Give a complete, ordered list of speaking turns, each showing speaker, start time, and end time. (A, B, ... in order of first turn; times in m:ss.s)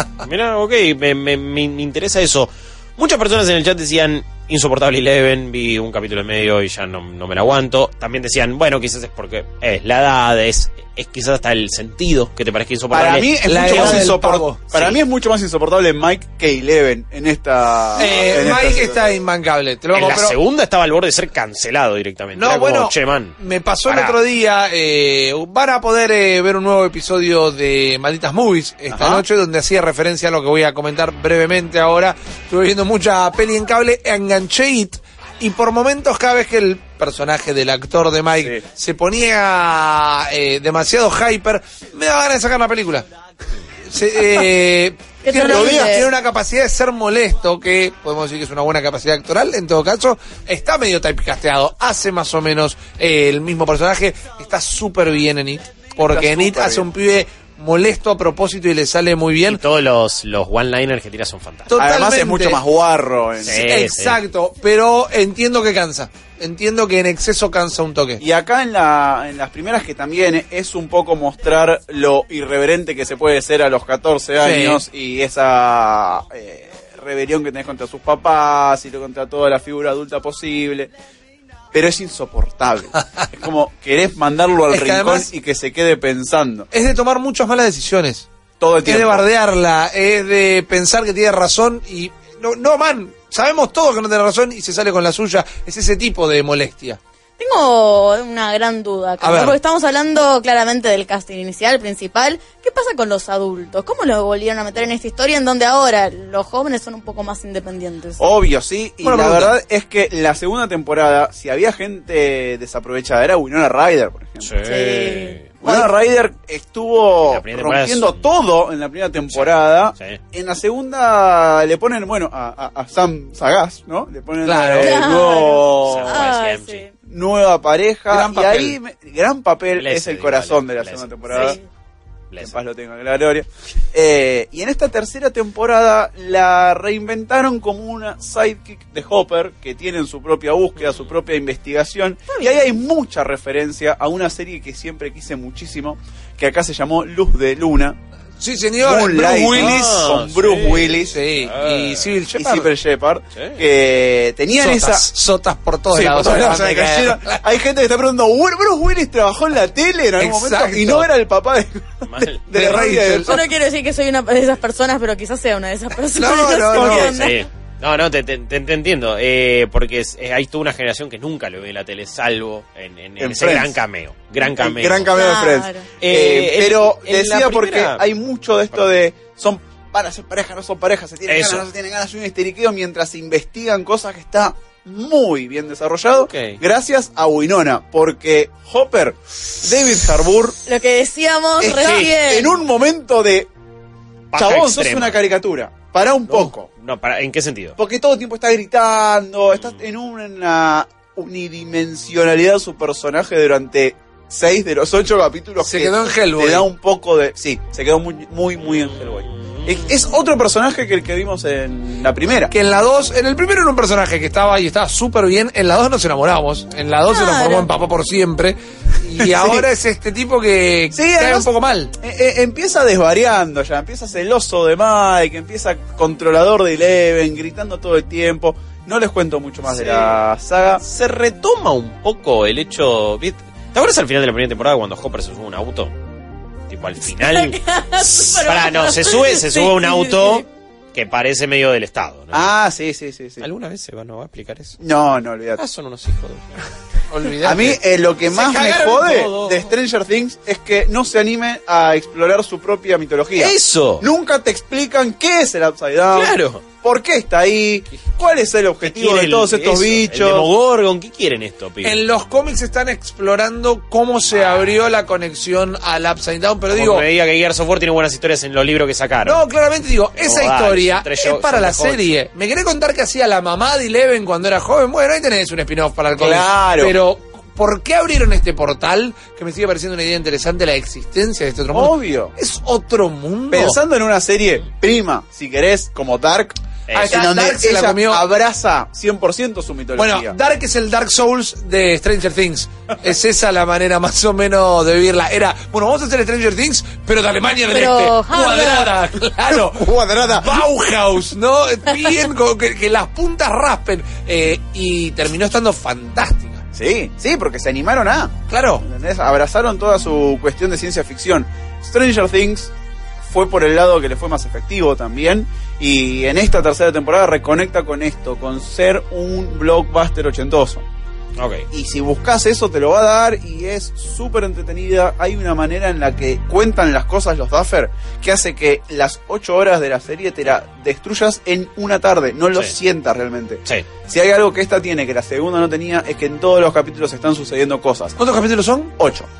0:00.2-0:14.2 A
0:12.9-0:19.1 B
0:13.4-0:14.6 C
0:14.7-0:15.0 A
0:18.0-0:20.4 C
0:19.9-0:24.2 A
0:22.4-0:43.0 C
0:28.9-0:29.2 B
0:43.9-0:59.6 C
0:45.2-0:46.1 D
0:45.4-0:46.0 B
0:56.0-0:56.9 B
0:59.4-1:01.8 A
1:01.7-1:02.6 C
1:01.7-1:03.7 B
1:03.4-1:04.2 A
1:03.5-1:08.2 C
1:08.2-1:20.9 B
1:14.4-1:14.8 C
1:21.7-1:26.7 B
1:24.7-1:25.3 C
1:26.7-1:28.2 C
1:28.6-1:29.2 B
1:28.8-1:37.0 C
1:37.4-1:48.2 D
1:39.2-1:39.6 C
1:48.2-1:54.5 B
1:49.0-1:49.6 C
1:54.4-1:55.5 A
1:54.6-1:55.4 D
1:55.6-2:06.2 B
1:57.2-1:58.3 A
1:59.3-2:00.2 A
2:04.4-2:05.0 C
2:04.8-2:06.9 D
2:05.8-2:06.8 A
2:07.0-2:11.6 B
2:08.1-2:08.8 C
2:09.7-2:11.6 A
2:11.3-2:11.6 D
2:12.3-2:12.6 A
2:12.4-2:28.0 B
2:20.8-2:21.1 A
2:28.4-2:30.2 C
2:28.8-2:31.2 B
2:29.5-2:32.2 A
2:31.0-2:32.7 C
2:32.3-2:35.1 B
2:33.3-2:33.6 A
2:34.6-2:37.4 C
2:35.9-2:43.4 B
2:40.2-2:41.1 C
2:42.0-2:42.4 A
2:42.5-2:43.4 C
2:43.2-2:47.4 D
2:46.2-2:47.1 C
2:46.7-2:47.1 B
2:47.0-2:55.1 A
2:53.2-2:53.8 B
2:54.4-3:10.6 B
2:55.1-2:55.9 D
2:56.0-2:58.0 A
3:01.3-3:01.6 A
3:06.2-3:06.6 A
3:10.6-3:12.5 D
3:11.6-3:13.5 B
3:11.7-3:12.1 A
3:14.3-3:15.2 A
3:14.3-3:16.7 B
3:16.3-3:17.8 A
3:17.8-3:32.5 B
3:25.6-3:26.7 C
3:28.7-3:29.9 A
3:32.5-3:41.9 C
3:37.1-3:37.7 D
3:39.2-3:39.7 B
3:40.9-3:50.8 B
3:49.7-3:50.2 A
3:50.8-3:55.9 A
3:56.7-4:02.5 A
3:57.1-4:00.4 D
4:02.3-4:03.4 B
4:03.4-4:04.8 A
4:04.8-4:05.6 B
4:05.6-4:06.6 A
4:07.1-4:07.8 C
4:07.4-4:20.5 B
4:08.2-4:09.7 A
4:13.3-4:14.1 A
4:16.1-4:16.6 A
4:18.8-4:22.0 A
4:21.8-4:27.0 C
4:26.7-4:29.4 A
4:29.2-4:43.8 C
4:30.1-4:32.1 A
4:36.2-4:36.9 B
4:41.7-4:42.3 B
4:43.5-4:46.6 B
4:46.9-4:47.3 A
4:46.9-4:48.2 C
4:47.1-4:50.4 B
4:50.0-5:06.6 C
4:57.7-4:58.9 D
4:59.5-5:00.6 B
5:06.7-5:12.7 B
5:08.5-5:08.8 C
5:13.3-5:20.8 B
5:21.4-5:21.6 A
5:21.7-5:38.2 B
5:38.2-5:38.9 C
5:39.0-5:39.3 B